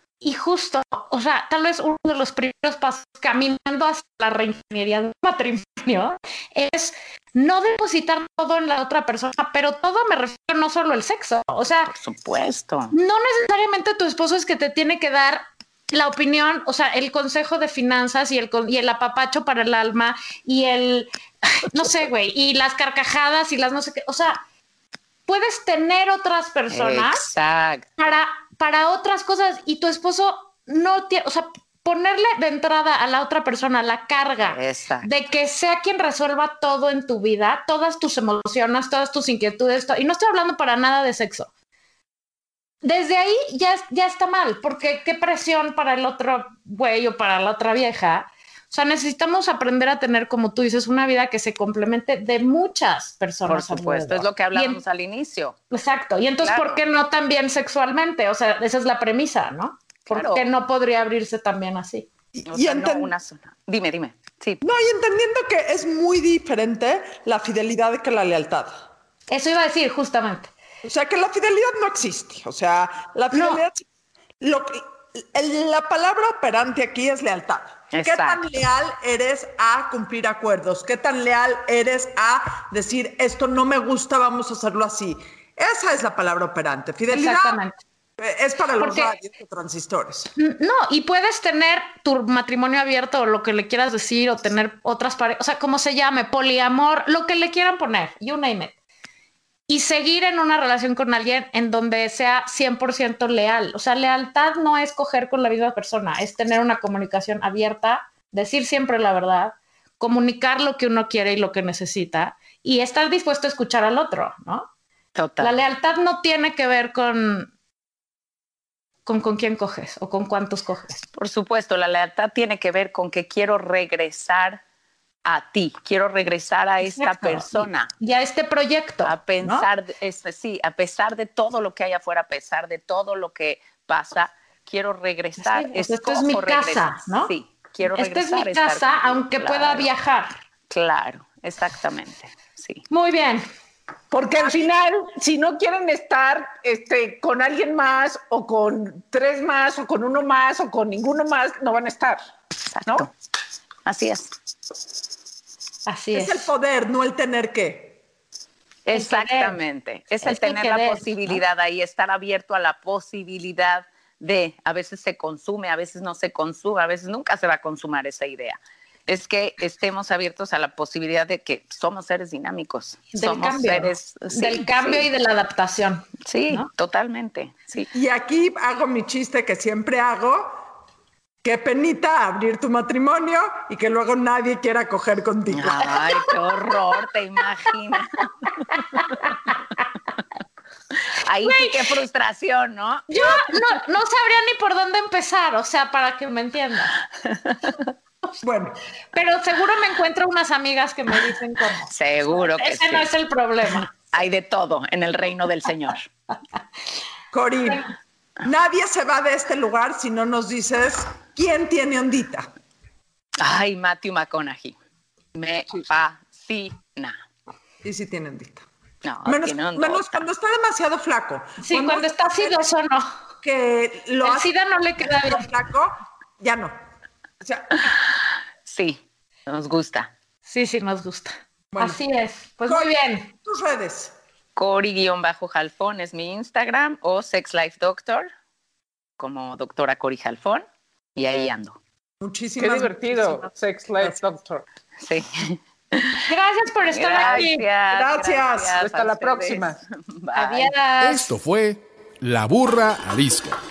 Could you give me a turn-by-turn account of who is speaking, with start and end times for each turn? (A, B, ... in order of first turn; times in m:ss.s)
0:00.2-0:11.9 A
0:11.9-0:12.9 B
0:12.9-0:24.4 A
0:25.3-0:27.2 A
0:26.7-0:27.9 B
0:28.0-0:41.5 A
0:34.4-0:35.1 B
0:42.8-0:54.8 A
0:53.5-0:55.6 B
0:55.7-1:02.1 A
0:56.4-0:56.8 B
1:00.1-1:00.4 B
1:02.4-1:03.1 C
1:02.5-1:04.6 B
1:04.6-1:08.8 C
1:09.3-1:10.5 A
1:10.8-1:13.9 C
1:13.3-1:13.6 A
1:14.4-1:27.6 C
1:17.9-1:18.4 B
1:27.1-1:27.8 A
1:28.2-1:30.3 C
1:28.8-1:29.1 A
1:30.4-1:38.7 A
1:39.7-1:54.7 A
1:55.2-1:55.6 B
1:55.4-1:57.5 A
1:59.1-2:01.0 A
2:01.2-2:04.6 B
2:05.3-2:07.9 B
2:06.8-2:09.7 A
2:09.0-2:19.9 B
2:15.4-2:17.3 A
2:17.8-2:20.4 A
2:20.7-2:22.8 B
2:22.9-2:23.4 A
2:24.1-2:32.2 D
2:32.7-2:33.1 B
2:33.9-2:34.3 B
2:35.9-2:36.5 A
2:36.1-2:38.0 C
2:38.9-2:55.1 B
2:38.9-2:39.6 A
2:40.2-2:41.4 A
2:53.1-2:56.7 A
2:56.3-2:57.9 B
2:57.9-3:00.6 C
3:01.4-3:06.1 C
3:05.5-3:09.1 B
3:06.0-3:06.8 A
3:08.7-3:09.6 A
3:11.2-3:13.6 B
3:11.4-3:11.8 A
3:13.1-3:16.9 A
3:17.2-3:17.9 B
3:18.4-3:18.8 C
3:19.1-3:23.9 A
3:21.9-3:23.1 B
3:23.7-3:26.0 B
3:27.3-3:27.9 C
3:28.4-3:32.5 C
3:33.4-3:34.8 B
3:35.4-3:37.2 B
3:37.8-3:38.7 C
3:39.0-3:40.3 B
3:39.2-3:42.6 C
3:41.6-3:43.1 A
3:43.4-3:44.5 C
3:44.2-3:45.5 A
3:45.0-3:46.7 C
3:47.4-3:47.9 C
3:48.7-3:50.1 B
3:50.5-3:53.3 A
3:51.7-3:52.0 C
3:52.7-3:54.2 C
3:54.6-3:58.3 B
3:59.2-4:01.8 B
4:02.2-4:04.2 C
4:02.6-4:04.7 D
4:05.0-4:06.2 B
4:06.2-4:07.6 A
4:06.9-4:10.7 B
4:07.9-4:08.8 C
4:08.8-4:09.8 D
4:10.4-4:11.4 A
4:11.0-4:13.6 E